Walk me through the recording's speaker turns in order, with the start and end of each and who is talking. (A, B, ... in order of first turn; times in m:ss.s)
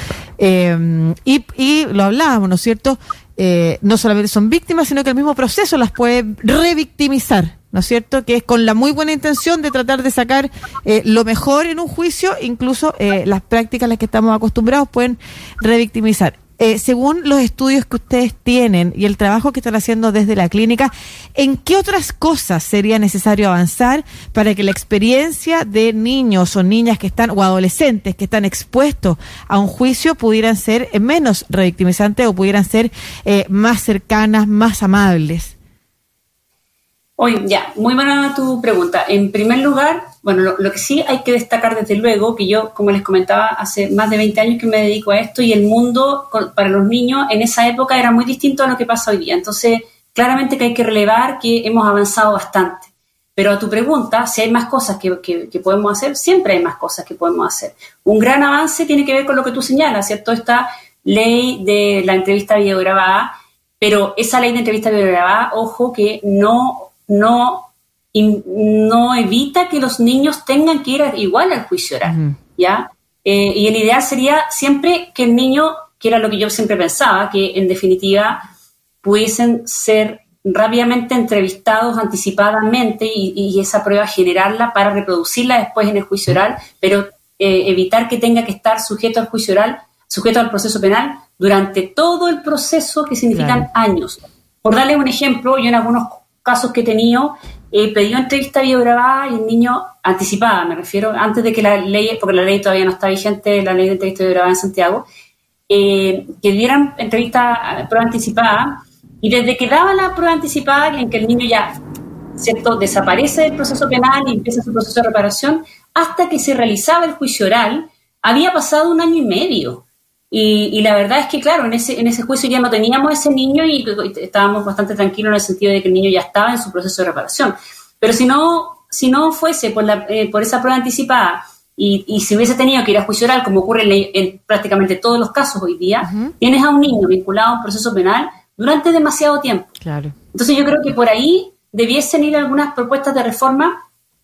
0:00.4-0:35.6 A
0:37.2-1:18.5 B
1:12.0-1:12.3 A
1:19.0-1:45.1 B
1:33.3-1:33.7 A
1:45.7-1:51.7 B
1:52.4-2:19.7 B
2:16.0-2:16.3 A
2:19.8-2:20.1 A
2:20.3-2:23.8 B